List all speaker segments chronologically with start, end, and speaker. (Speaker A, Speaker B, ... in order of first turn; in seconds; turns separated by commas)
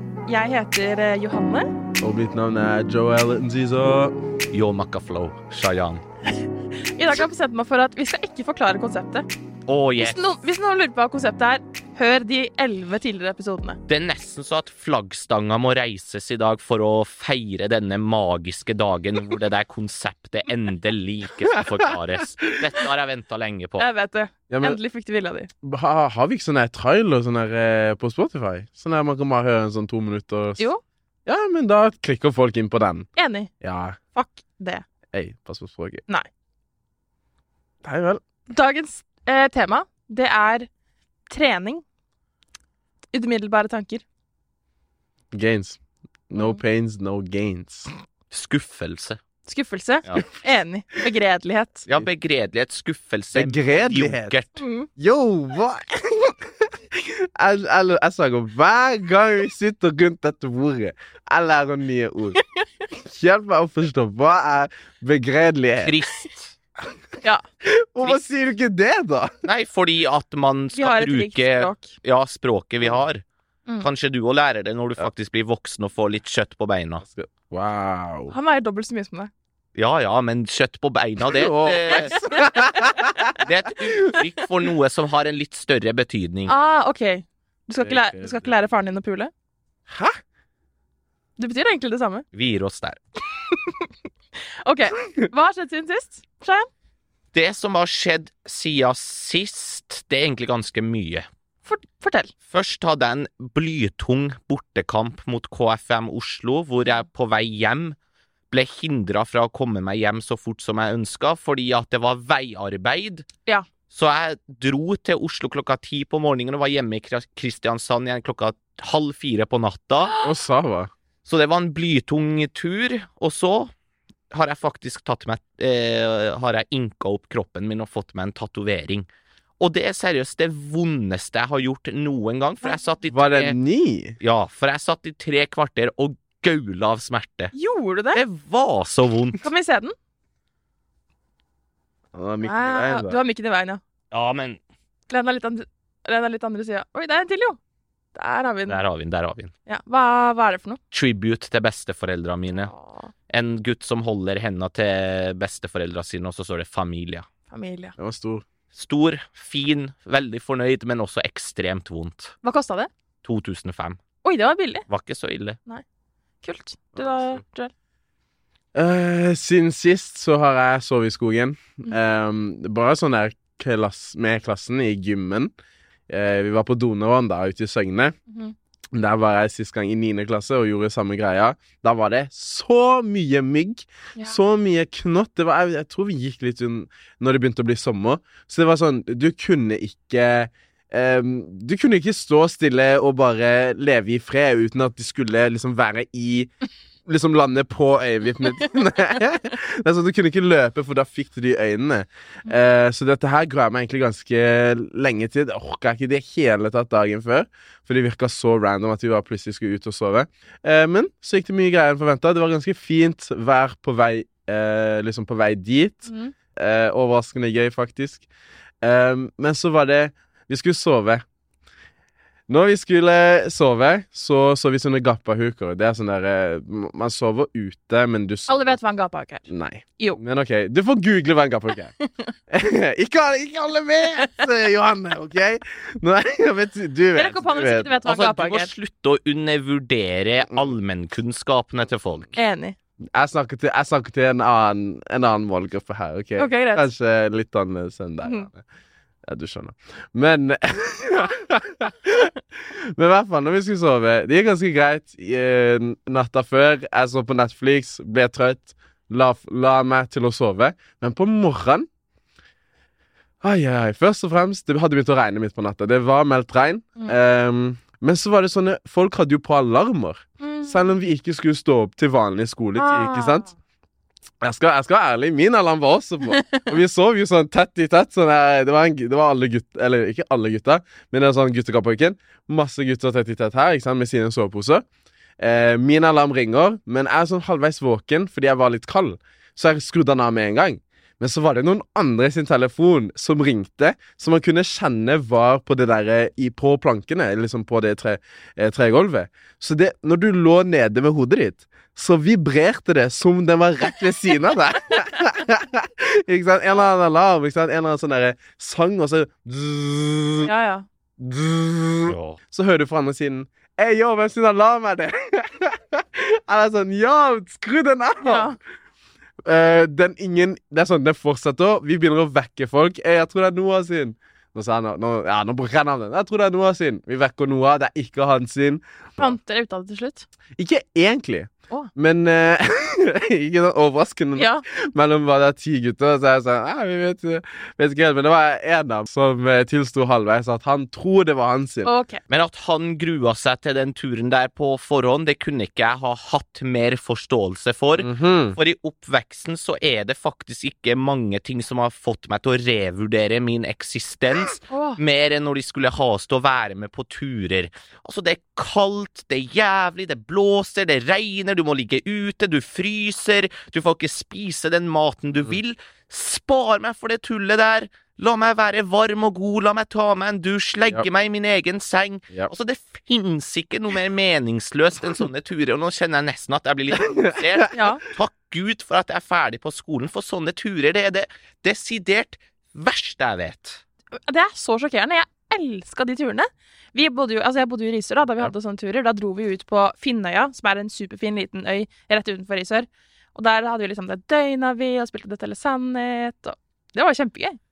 Speaker A: 0.3-1.7, Speaker B: 2.0-4.2, Speaker C: 4.5-6.0, Speaker A: 7.0-9.3, Speaker C: 9.7-10.2, Speaker A: 10.0-13.8, Speaker C: 13.9-23.9, Speaker B: 21.5-22.9, Speaker A: 23.8-25.5, Speaker B: 24.5-24.8, Speaker B: 25.6-30.6, Speaker B: 31.3-33.1, Speaker A: 33.2-33.5, Speaker B: 33.6-34.0, Speaker A: 34.1-34.8, Speaker B: 35.1-36.0, Speaker B: 37.8-38.2, Speaker A: 38.5-40.7, Speaker A: 41.3-41.8, Speaker A: 43.1-44.0, Speaker B: 45.3-45.8, Speaker B: 46.3-47.9, Speaker C: 48.3-49.2, Speaker A: 49.5-51.9, Speaker C: 51.9-54.6, Speaker B: 53.4-54.4, Speaker A: 54.6-54.9, Speaker B: 55.0-62.4, Speaker A: 62.4-62.6, Speaker B: 62.9-66.0, Speaker C: 65.8-66.5, Speaker B: 67.6-69.3, Speaker C: 69.4-73.2, Speaker A: 70.8-71.9, Speaker C: 73.8-77.0, Speaker B: 77.0-78.3, Speaker A: 78.3-79.3, Speaker C: 79.8-82.3, Speaker B: 81.2-83.1, Speaker C: 83.4-86.5, Speaker A: 86.5-89.3, Speaker B: 87.8-88.5, Speaker B: 89.9-90.2, Speaker A: 91.4-92.2, Speaker C: 92.3-93.0, Speaker A: 93.5-93.9, Speaker A: 94.6-96.7, Speaker C: 97.3-101.3, Speaker A: 101.7-102.3, Speaker C: 102.5-108.0, Speaker C: 108.5-113.3, Speaker C: 113.9-120.2, Speaker B: 120.2-120.9, Speaker C: 121.3-123.7, Speaker C: 124.3-129.1, Speaker C: 129.6-133.6, Speaker B: 133.1-134.2, Speaker C: 134.2-137.5, Speaker A: 137.5-138.2, Speaker C: 138.1-139.4, Speaker A: 139.4-139.9, Speaker B: 142.1-143.2, Speaker A: 142.4-143.8, Speaker C: 144.1-144.6, Speaker A: 145.1-147.6, Speaker A: 148.2-148.8, Speaker C: 148.7-149.5, Speaker A: 149.7-150.8, Speaker C: 150.9-152.7, Speaker A: 152.5-153.1, Speaker C: 153.3-157.3, Speaker A: 157.5-157.9, Speaker B: 158.0-158.4, Speaker C: 158.7-162.3, Speaker A: 162.4-162.9, Speaker C: 163.2-164.0, Speaker A: 164.2-164.8, Speaker C: 164.9-165.6, Speaker A: 166.4-167.7, Speaker B: 167.0-167.4, Speaker B: 168.8-175.5, Speaker B: 176.1-178.2, Speaker A: 178.3-178.6, Speaker B: 178.9-196.5, Speaker B: 197.1-218.2, Speaker A: 216.1-216.3, Speaker B: 218.8-221.2, Speaker B: 222.5-228.8, Speaker A: 228.5-229.5, Speaker B: 229.5-231.9, Speaker B: 232.5-238.0, Speaker A: 237.2-238.7, Speaker C: 238.0-242.3, Speaker A: 242.3-242.8, Speaker B: 243.1-248.6, Speaker A: 246.4-246.9, Speaker B: 249.2-261.9, Speaker B: 263.4-273.5, Speaker A: 270.4-270.8, Speaker A: 272.8-273.5, Speaker B: 274.4-284.9, Speaker A: 276.4-276.7, Speaker B: 285.4-310.5, Speaker A: 310.4-310.9, Speaker B: 311.2-318.6, Speaker C: 312.1-312.4, Speaker A: 318.2-318.6, Speaker B: 319.4-329.4, Speaker A: 329.2-330.3, Speaker B: 330.6-341.9, Speaker A: 334.4-334.6, Speaker A: 341.8-342.2, Speaker C: 342.3-383.8, Speaker B: 348.0-348.6, Speaker A: 354.7-355.0, Speaker A: 377.7-378.0, Speaker A: 384.2-397.6